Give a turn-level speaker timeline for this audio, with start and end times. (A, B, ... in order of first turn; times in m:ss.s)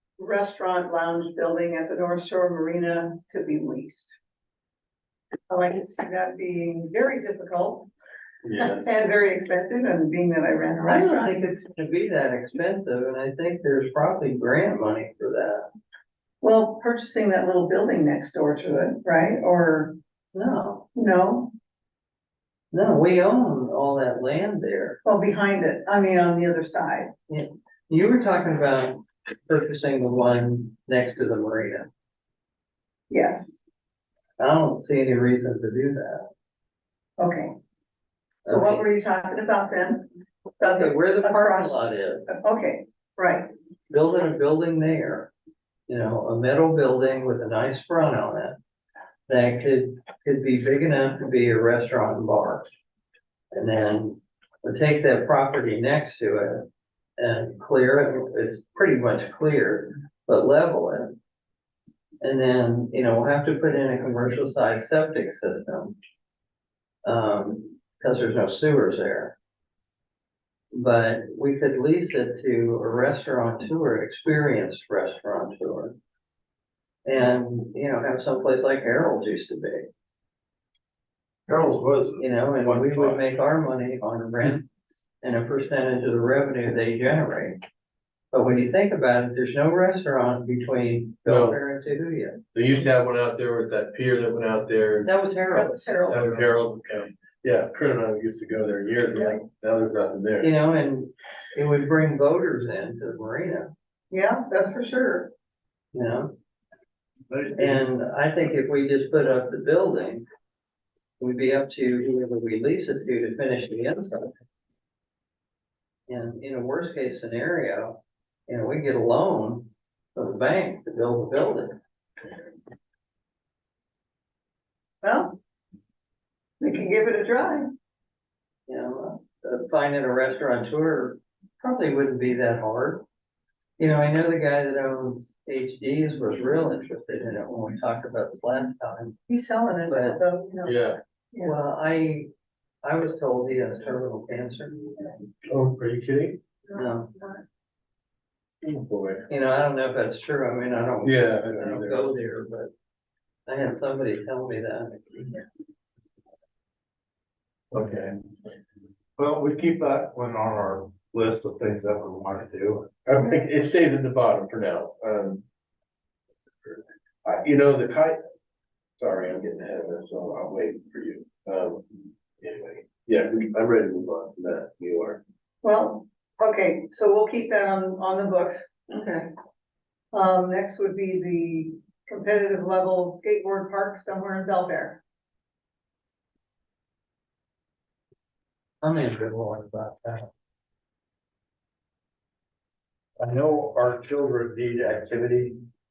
0:00.2-0:04.2 A
0:05.5-0:07.9 A
0:08.4-0:08.8 B
0:08.6-0:11.4 A
0:10.8-0:15.6 C
0:16.4-0:19.9 A
0:20.3-0:20.9 C
0:21.0-0:21.5 A
0:22.7-0:25.0 C
0:25.0-0:27.1 A
0:27.3-0:31.9 C
0:33.1-0:33.6 A
0:34.4-0:36.3 C
0:37.2-0:37.5 A
0:38.4-0:38.9 C
0:38.4-0:40.1 A
0:40.6-0:43.5 A
0:40.6-0:42.3 C
0:43.9-0:45.3 C
0:45.9-0:48.6 C
0:49.3-0:52.7 C
0:53.5-0:56.7 C
0:57.2-1:01.2 C
1:02.2-1:06.0 C
1:07.0-1:09.3 C
1:10.7-1:16.0 C
1:17.0-1:19.9 C
1:21.5-1:23.2 D
1:22.2-1:24.7 C
1:25.2-1:27.6 C
1:28.3-1:32.4 C
1:31.3-1:31.6 B
1:32.5-1:35.1 B
1:35.0-1:36.5 C
1:35.5-1:36.5 A
1:36.1-1:40.5 B
1:40.4-1:43.7 C
1:44.1-1:45.3 A
1:45.9-1:46.3 C
1:47.3-1:47.9 D
1:47.6-1:50.2 C
1:51.2-1:54.3 C
1:56.1-2:01.7 C
2:05.0-2:05.3 A
2:06.6-2:07.7 A
2:08.7-2:13.0 C
2:13.8-2:19.2 C
2:19.3-2:20.8 A
2:19.9-2:20.2 C
2:20.6-2:21.0 B
2:21.4-2:22.3 C
2:22.8-2:25.1 C
2:25.5-2:26.4 B
2:26.7-2:27.1 C
2:26.7-2:27.4 A
2:28.6-2:29.3 B
2:29.3-2:32.7 C
2:31.0-2:32.1 B
2:33.5-2:35.4 C
2:37.7-2:38.1 D
2:39.2-2:42.9 D
2:43.1-2:45.4 B
2:46.6-2:48.2 B
2:49.0-2:51.8 B
2:52.4-2:55.2 B
2:55.6-2:58.7 A
2:58.9-2:59.3 C
3:00.1-3:05.0 A
3:08.8-3:10.3 C
3:13.2-3:15.6 D